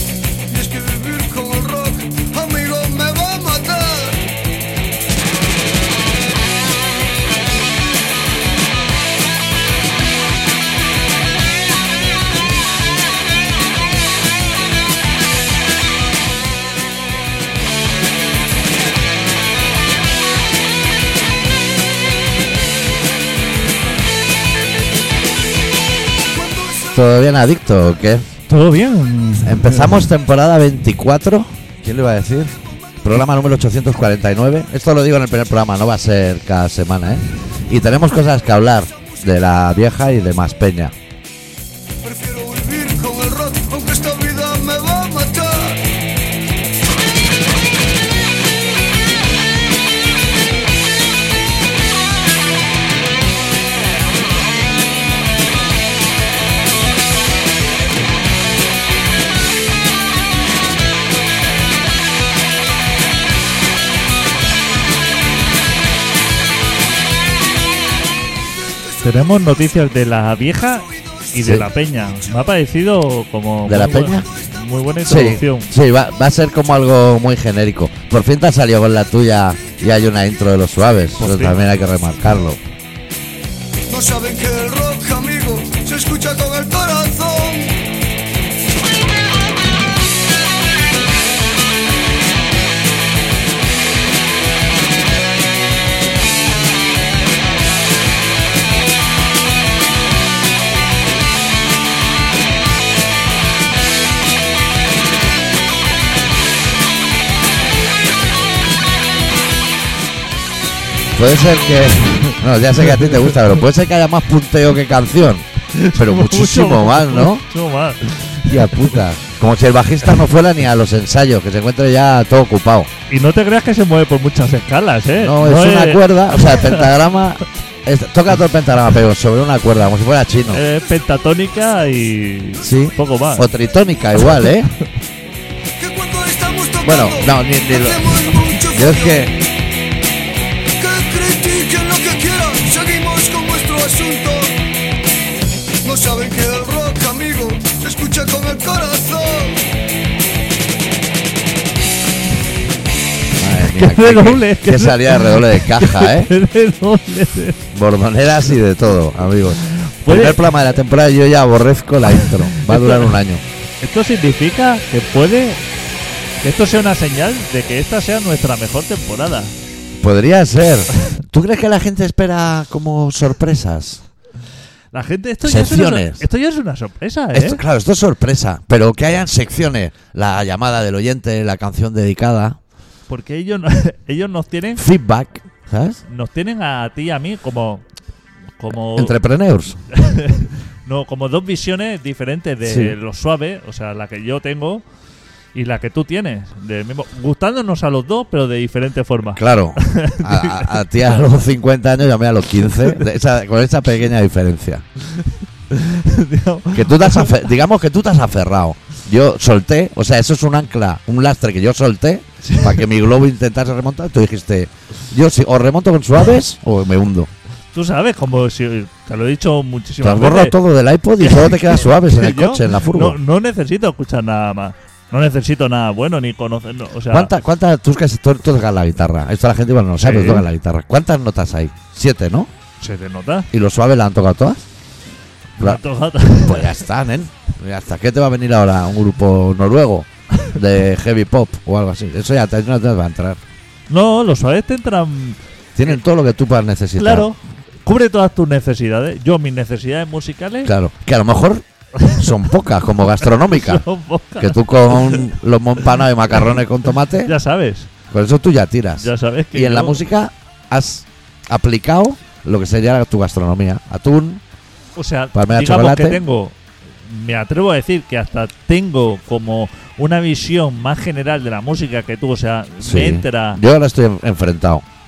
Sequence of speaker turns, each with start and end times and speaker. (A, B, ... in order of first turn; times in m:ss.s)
0:00.5-0:04.3 A
0:26.2-0:27.0 A
0:26.9-0:28.3 B
0:28.5-0:30.0 C
0:29.4-0:40.9 B
0:42.0-0:45.9 A
1:09.0-1:15.7 C
1:11.3-1:11.6 B
1:13.6-1:14.3 B
1:14.4-1:14.8 A
1:15.0-1:22.6 B
1:21.2-1:21.6 C
1:23.9-1:27.9 A
1:51.1-1:57.4 B
1:53.0-1:53.3 C
1:55.7-1:59.0 C
1:58.4-2:02.9 B
2:03.1-2:06.9 C
2:05.2-2:10.6 B
2:10.5-2:13.5 C
2:12.6-2:14.7 B
2:15.8-2:19.4 A
2:16.8-2:19.4 B
2:20.8-2:24.7 A
2:25.8-2:29.6 A
2:33.4-2:36.3 B
2:33.6-2:37.6 C
2:37.7-2:43.4 B
2:39.6-2:40.4 C
2:42.1-2:43.2 C
2:43.8-2:45.6 C
2:46.4-2:49.5 C
2:50.0-2:54.0 B
2:54.9-2:57.6 C
2:55.4-2:56.2 B
2:57.3-3:02.6 B
3:03.1-3:04.8 C
3:04.8-3:06.0 B
3:06.1-3:07.8 C
3:08.6-3:09.1 C
3:08.9-3:09.8 B
3:09.9-3:14.8 C
3:12.6-3:13.0 B
3:15.5-3:20.8 C
3:19.4-3:24.8 B
3:22.8-3:23.0 C
3:25.0-3:27.3 C
3:26.7-3:37.3 B
3:32.4-3:32.8 C
3:37.7-3:40.6 C
3:40.0-3:43.2 B
3:41.2-3:47.3 C
3:47.1-3:52.5 B
3:50.0-3:50.5 C
3:52.8-3:53.5 C
3:53.5-3:54.6 B
3:55.6-3:56.8 C
3:55.6-4:03.4 B
4:03.9-4:05.4 C
4:05.8-4:07.3 B
4:07.0-4:10.7 C
4:10.6-4:13.8 B
4:11.9-4:12.5 C
4:13.2-4:15.3 C
4:14.4-4:17.3 B
4:17.2-4:17.9 C
4:18.1-4:24.4 B
4:19.0-4:20.0 C
4:25.0-4:33.6 C
4:25.3-4:26.2 B
4:32.8-4:34.8 B